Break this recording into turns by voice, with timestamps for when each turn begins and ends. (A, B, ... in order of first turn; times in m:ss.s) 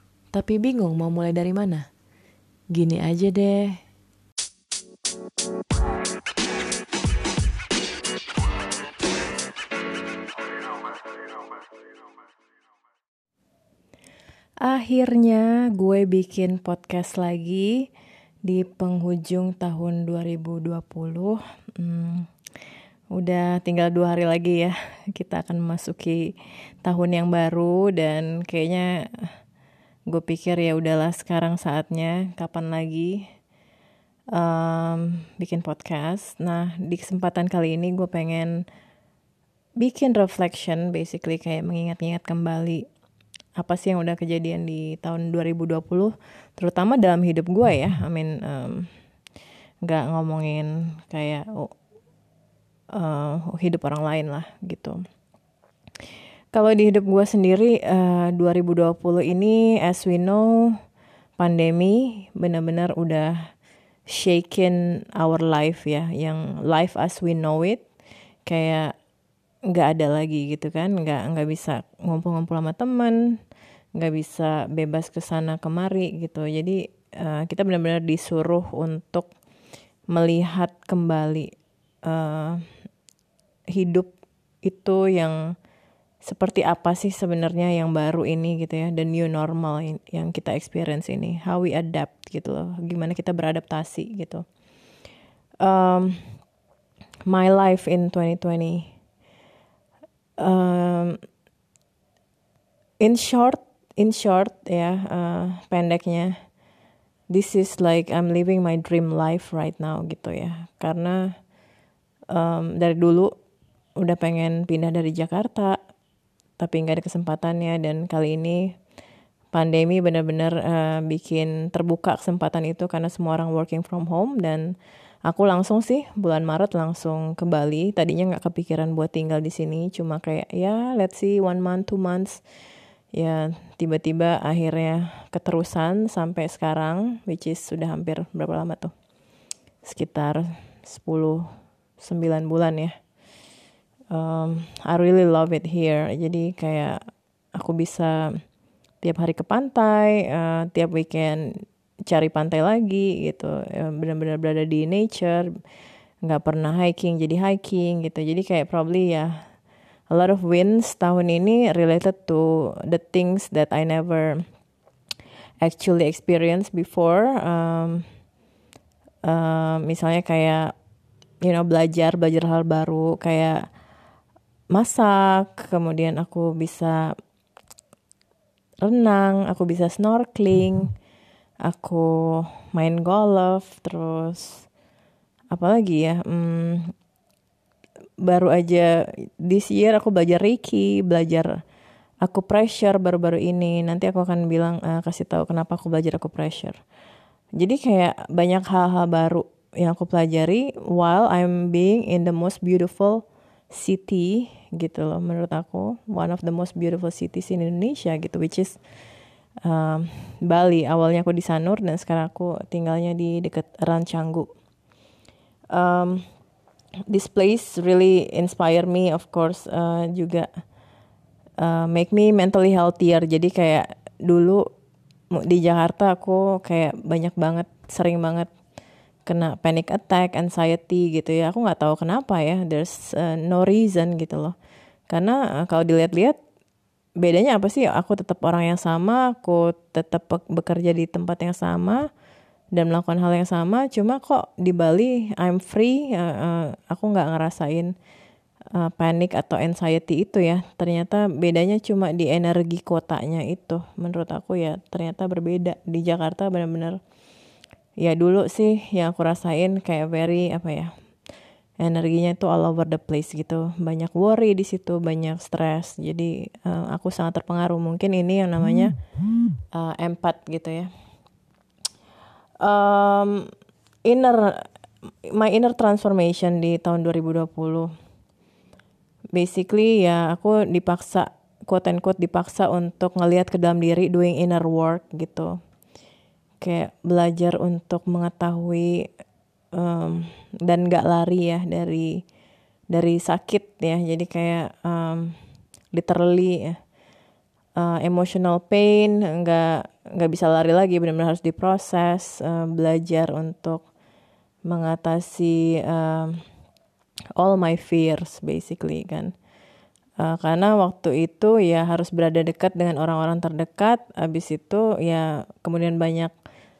0:00.3-0:01.9 A
0:02.7-0:03.8 A
0:14.6-0:17.9 A
0:18.4-0:22.3 A
0:23.1-0:26.3 A
0:26.8-0:29.3 A
0:30.1-0:33.2 A
0:34.3-0:38.6 A
0:39.8-0:42.8 A
0:43.6-0:48.9 A
0:49.8-0:51.7 A
0:52.9-0:55.0 A
0:56.5-1:00.8 A
1:01.4-1:03.4 A
1:04.1-1:07.8 A
1:08.5-1:08.9 A
1:09.7-1:13.2 A
1:14.0-1:19.3 A
1:20.1-1:21.5 A
1:22.0-1:22.6 A
1:23.7-1:24.1 A
1:24.6-1:25.4 A
1:26.2-1:34.4 A
1:35.6-1:36.2 A
1:37.3-1:38.9 A
1:40.4-1:41.2 A
1:43.0-1:46.3 A
1:47.3-1:51.3 A
1:52.3-1:53.3 A
1:54.0-1:55.8 A
1:56.6-1:58.7 A
1:59.5-2:04.7 A
2:05.2-2:12.4 A
2:13.1-2:18.9 A
2:19.8-2:22.9 A
2:24.1-2:27.0 A
2:27.6-2:28.2 A
2:29.0-2:31.4 A
2:32.1-2:35.5 A
2:36.2-2:39.3 A
2:40.1-2:44.4 A
2:45.6-2:48.0 A
2:49.2-2:50.7 A
2:51.4-2:53.6 A
2:54.7-2:57.0 A
2:58.8-3:00.9 A
3:01.6-3:04.6 A
3:05.5-3:06.9 A
3:08.2-3:08.9 A
3:09.4-3:11.5 A
3:12.2-3:16.8 A
3:17.6-3:28.8 A
3:29.6-3:34.5 A
3:35.7-3:36.2 A
3:37.1-3:40.5 A
3:41.6-3:44.6 A
3:45.3-3:48.5 A
3:49.3-3:54.5 A
3:55.1-3:56.4 A
3:57.2-4:02.0 A
4:02.7-4:07.9 A
4:08.7-4:17.0 A
4:18.0-4:20.9 A
4:21.8-4:28.9 A
4:29.7-4:30.9 A
4:32.6-4:33.5 A
4:34.0-4:34.7 A
4:35.3-4:37.9 A
4:39.3-4:45.5 A
4:46.6-4:49.0 A
4:49.8-4:52.2 A
4:52.9-4:55.3 A
4:55.9-4:56.8 A
4:57.8-5:03.8 A
5:04.7-5:06.4 A
5:07.4-5:09.3 A
5:10.2-5:16.3 A